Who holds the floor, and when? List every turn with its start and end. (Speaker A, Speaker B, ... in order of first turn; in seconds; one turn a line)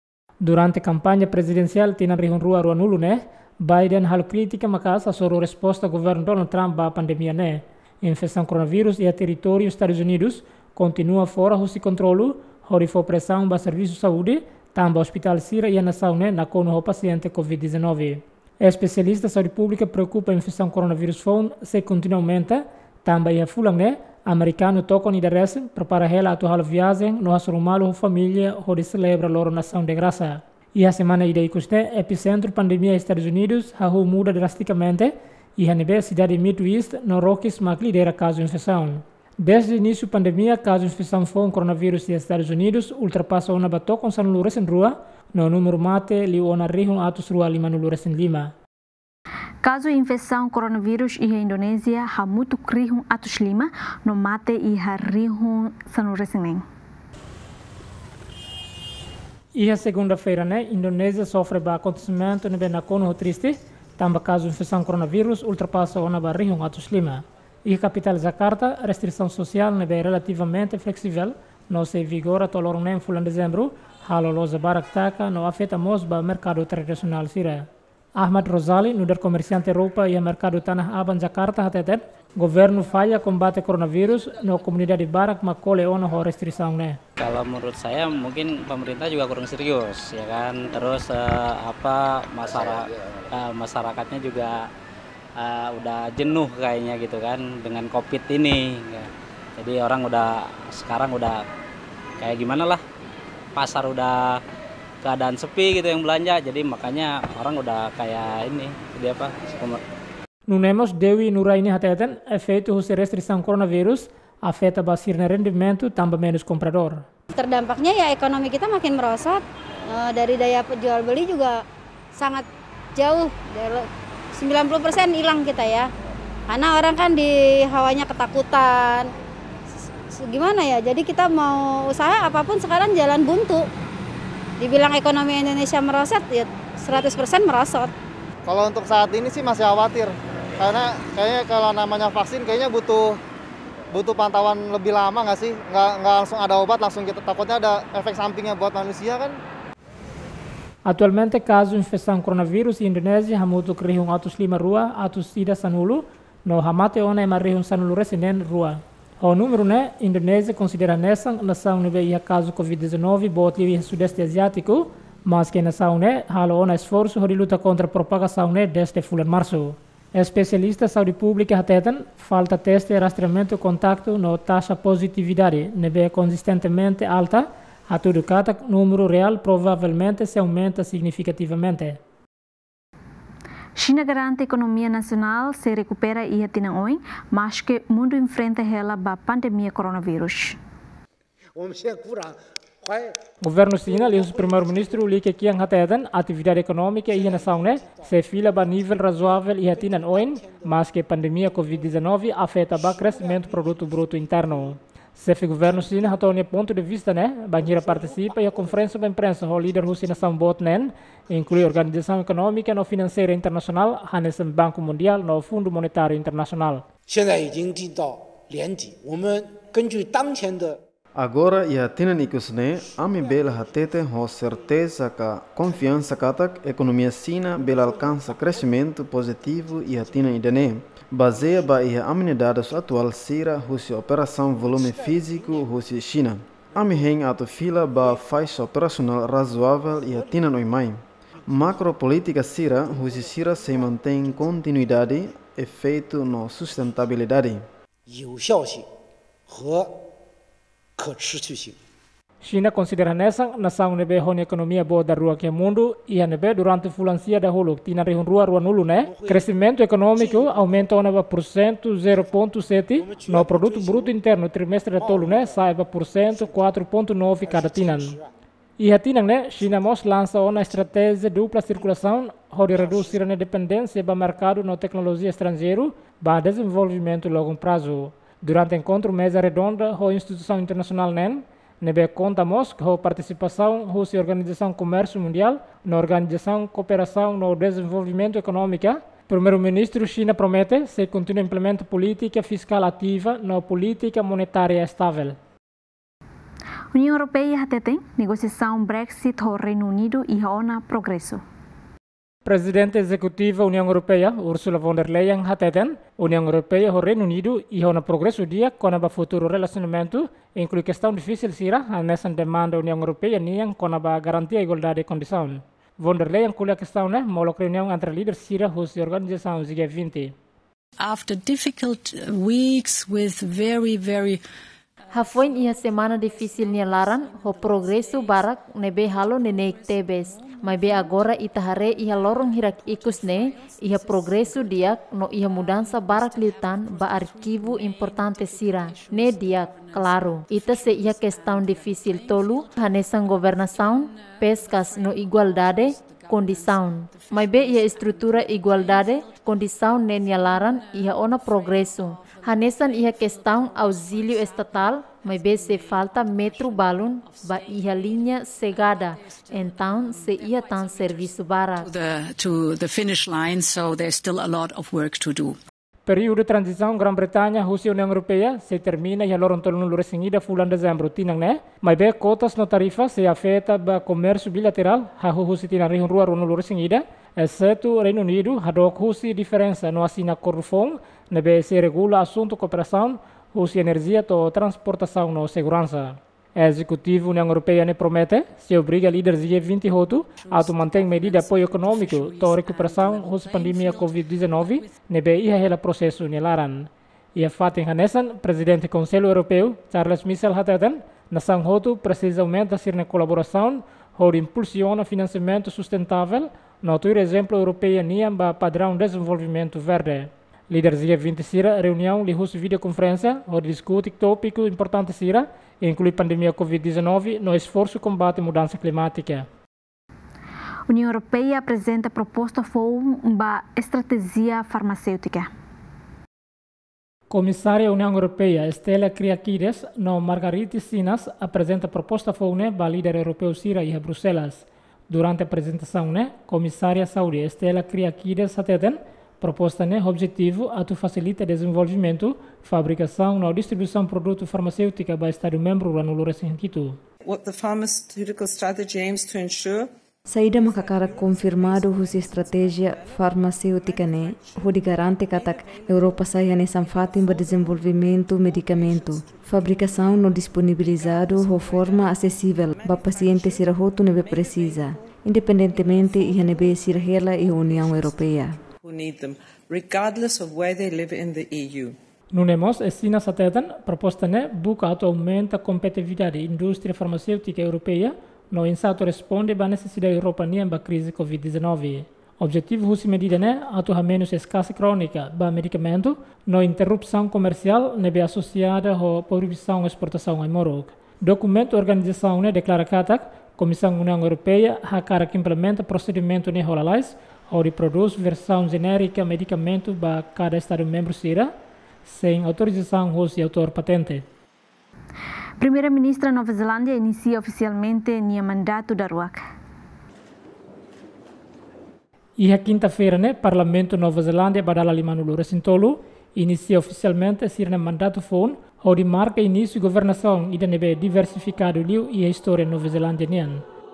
Speaker A: 0.4-48.5
Speaker B: 49.6-56.6
Speaker A: 59.5-87.0
Speaker C: 87.2-94.7
Speaker C: 95.4-101.4
Speaker C: 102.2-102.8
Speaker C: 103.6-104.4
Speaker C: 105.0-109.8
Speaker A: 110.5-117.0
Speaker D: 117.3-121.6
Speaker D: 122.2-122.5
Speaker D: 123.0-125.9
Speaker D: 126.5-129.1
Speaker D: 130.1-133.7
Speaker D: 134.6-137.9
Speaker E: 138.5-143.2
Speaker E: 143.9-149.4
Speaker A: 150.9-182.0
Speaker B: 183.8-190.6
Speaker F: 191.6-193.2
Speaker A: 193.4-216.9
Speaker F: 217.1-220.8
Speaker G: 221.2-247.7
Speaker F: 234.8-235.6
Speaker F: 248.1-248.9
Speaker F: 249.5-250.0
Speaker F: 251.0-251.8
Speaker A: 252.4-268.2
Speaker F: 259.0-259.5
Speaker F: 260.2-260.5
Speaker F: 263.0-264.1
Speaker F: 265.0-265.5
Speaker F: 267.4-268.3
Speaker A: 268.8-295.4
Speaker F: 272.8-273.0
Speaker B: 296.9-301.4
Speaker A: 302.4-320.3
Speaker H: 321.0-324.4
Speaker I: 325.1-361.9
Speaker H: 361.8-365.6
Speaker A: 366.1-419.5
Speaker B: 420.9-425.5
Speaker A: 427.3-447.0
Speaker J: 447.3-449.9
Speaker K: 450.3-468.6
Speaker J: 468.8-471.9
Speaker A: 472.3-501.5
Speaker A: 502.1-504.2
Speaker B: 505.6-509.4
Speaker A: 512.4-523.6